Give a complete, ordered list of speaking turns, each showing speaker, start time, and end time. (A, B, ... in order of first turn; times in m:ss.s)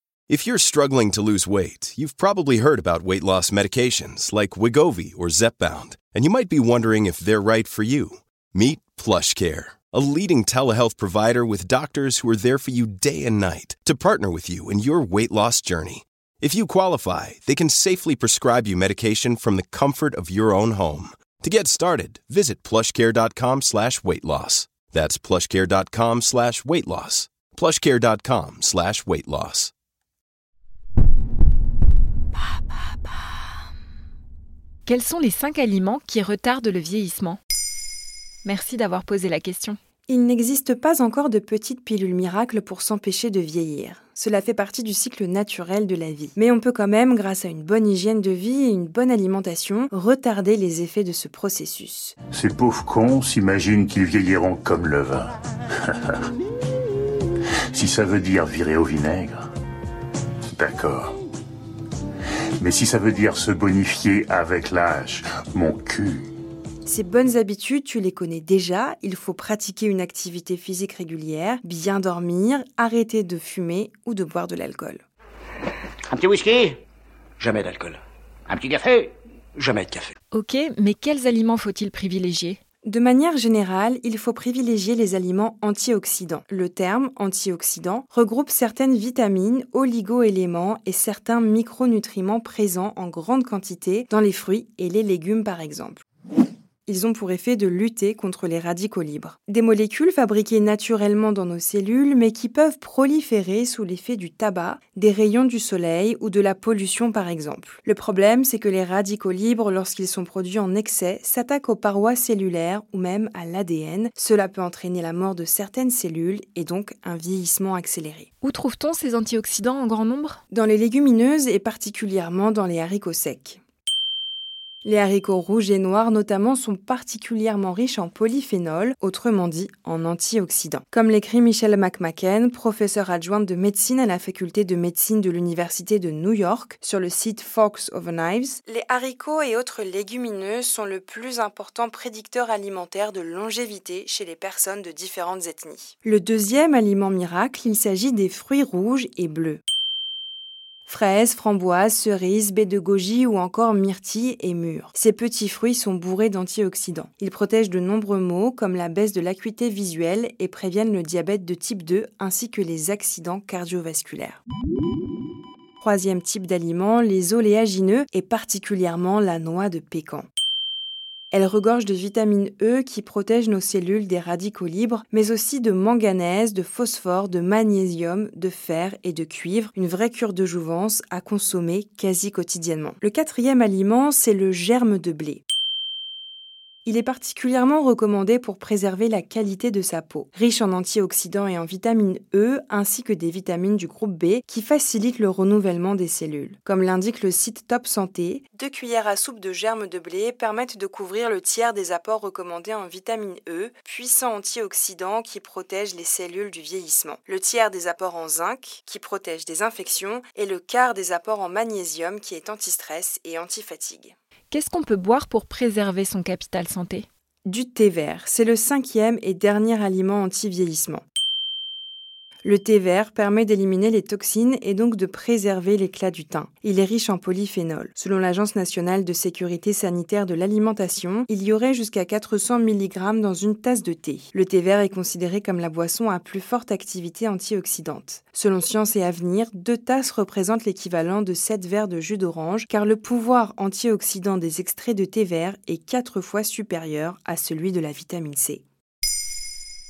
0:00.3-0:29.7 A
0:34.9-0:37.4 B
0:38.4-0:39.8 B
0:40.1-0:52.2 C
0:52.3-0:55.3 D
0:55.9-0:56.2 D
0:57.7-0:59.4 D
1:00.6-1:01.1 D
1:02.6-1:06.2 D
1:06.8-1:15.0 C
1:16.1-1:16.7 E
1:17.4-1:18.0 E
1:18.5-1:20.1 E
1:20.3-1:22.6 B
1:22.8-1:36.0 C
1:36.9-1:58.3 C
1:58.4-2:00.4 B
2:00.5-2:03.6 C
2:04.8-2:29.6 C
2:30.9-2:44.4 C
2:45.8-2:50.3 C
2:51.3-3:05.4 C
3:06.8-3:34.2 C
3:34.5-3:37.1 B
3:37.5-3:41.0 C
3:42.4-4:08.6 C